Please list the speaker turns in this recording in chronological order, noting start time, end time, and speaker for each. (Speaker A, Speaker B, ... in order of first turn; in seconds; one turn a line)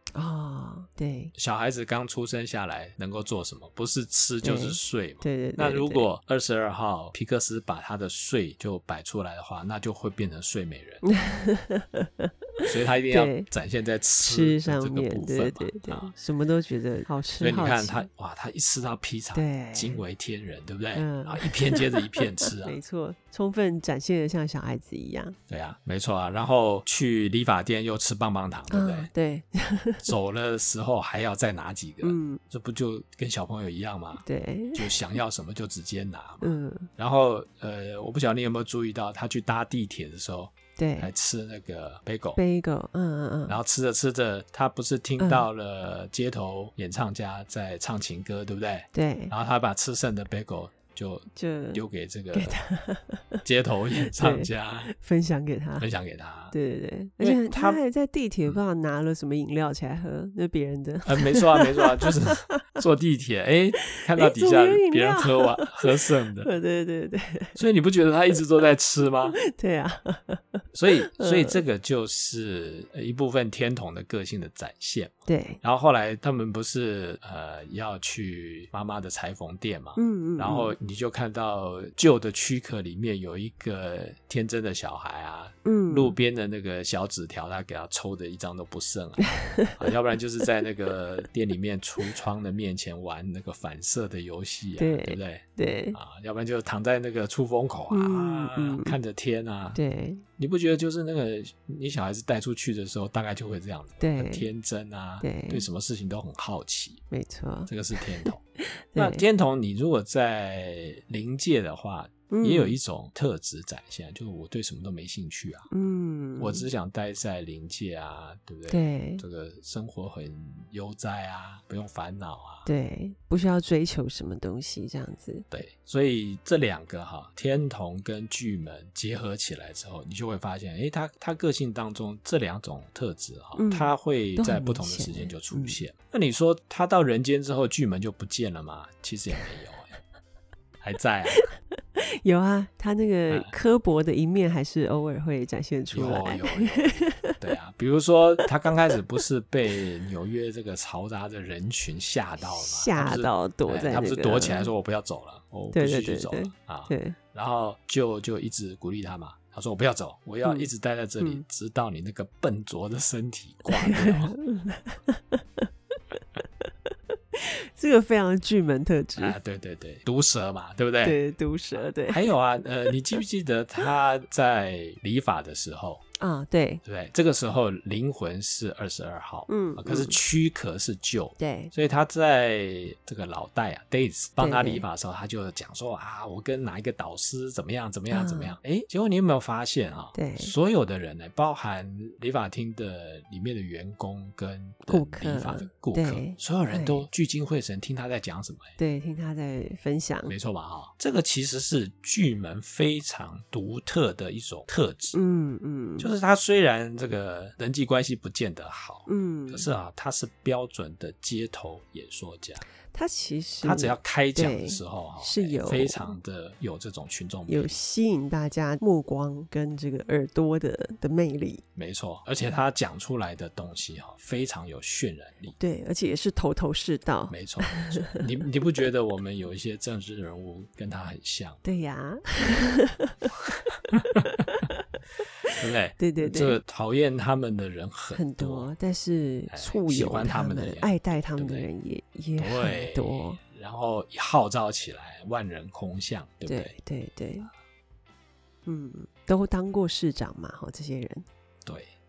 Speaker A: 0.1-1.3
Speaker B: 1.3-11.1
Speaker A: 4.4-6.0
Speaker A: 11.0-13.5
Speaker B: 12.6-16.1
Speaker A: 14.2-18.0
Speaker B: 17.4-22.8
Speaker A: 19.3-20.0
Speaker A: 20.9-25.4
Speaker B: 25.5-29.1
Speaker A: 28.7-30.1
Speaker B: 30.0-42.4
Speaker A: 32.0-32.4
Speaker A: 34.2-35.0
Speaker A: 36.4-36.9
Speaker A: 40.8-41.1
Speaker A: 42.4-43.6
Speaker B: 43.5-52.6
Speaker A: 45.2-45.4
Speaker A: 48.9-49.3
Speaker A: 51.3-51.8
Speaker A: 52.3-53.4
Speaker B: 53.4-54.9
Speaker A: 54.0-55.9
Speaker B: 55.8-56.5
Speaker A: 56.5-62.6
Speaker B: 57.2-57.8
Speaker B: 61.0-66.5
Speaker A: 63.9-67.6
Speaker B: 67.5-69.4
Speaker A: 69.3-71.6
Speaker B: 70.7-99.8
Speaker A: 75.3-75.6
Speaker A: 80.0-80.7
Speaker A: 85.6-86.2
Speaker A: 89.3-89.9
Speaker A: 94.8-96.0
Speaker A: 97.9-99.0
Speaker A: 99.7-100.2
Speaker B: 100.4-107.0
Speaker A: 104.0-104.5
Speaker A: 105.2-105.6
Speaker A: 107.1-109.2
Speaker B: 107.7-108.4
Speaker B: 109.0-115.7
Speaker A: 112.3-112.8
Speaker A: 115.7-116.7
Speaker B: 116.4-122.7
Speaker A: 118.7-119.2
Speaker A: 122.7-125.4
Speaker B: 125.5-139.9
Speaker A: 133.6-135.8
Speaker B: 140.8-141.4
Speaker A: 141.3-147.4
Speaker B: 145.9-164.3
Speaker A: 152.4-154.7
Speaker A: 155.7-157.2
Speaker A: 160.4-160.7
Speaker A: 163.7-169.4
Speaker B: 169.2-171.2
Speaker A: 171.0-172.3
Speaker B: 171.7-176.0
Speaker A: 172.8-173.2
Speaker A: 176.2-176.8
Speaker B: 176.8-198.7
Speaker A: 179.5-180.2
Speaker A: 181.4-181.7
Speaker A: 184.4-184.8
Speaker A: 188.1-188.6
Speaker A: 190.1-190.5
Speaker A: 194.9-197.1
Speaker A: 198.8-200.3
Speaker B: 200.3-205.2
Speaker A: 205.1-206.1
Speaker B: 206.0-212.6
Speaker A: 209.1-209.7
Speaker A: 212.9-216.1
Speaker B: 213.6-217.7
Speaker A: 217.5-221.6
Speaker B: 221.8-225.6
Speaker A: 225.6-228.2
Speaker B: 227.3-231.6
Speaker A: 231.6-233.5
Speaker B: 233.9-234.4
Speaker A: 234.2-234.8
Speaker A: 235.5-236.6
Speaker B: 235.5-238.7
Speaker A: 238.1-243.4
Speaker B: 239.5-241.7
Speaker B: 242.4-246.7
Speaker A: 246.4-247.5
Speaker A: 248.7-251.2
Speaker B: 251.7-251.9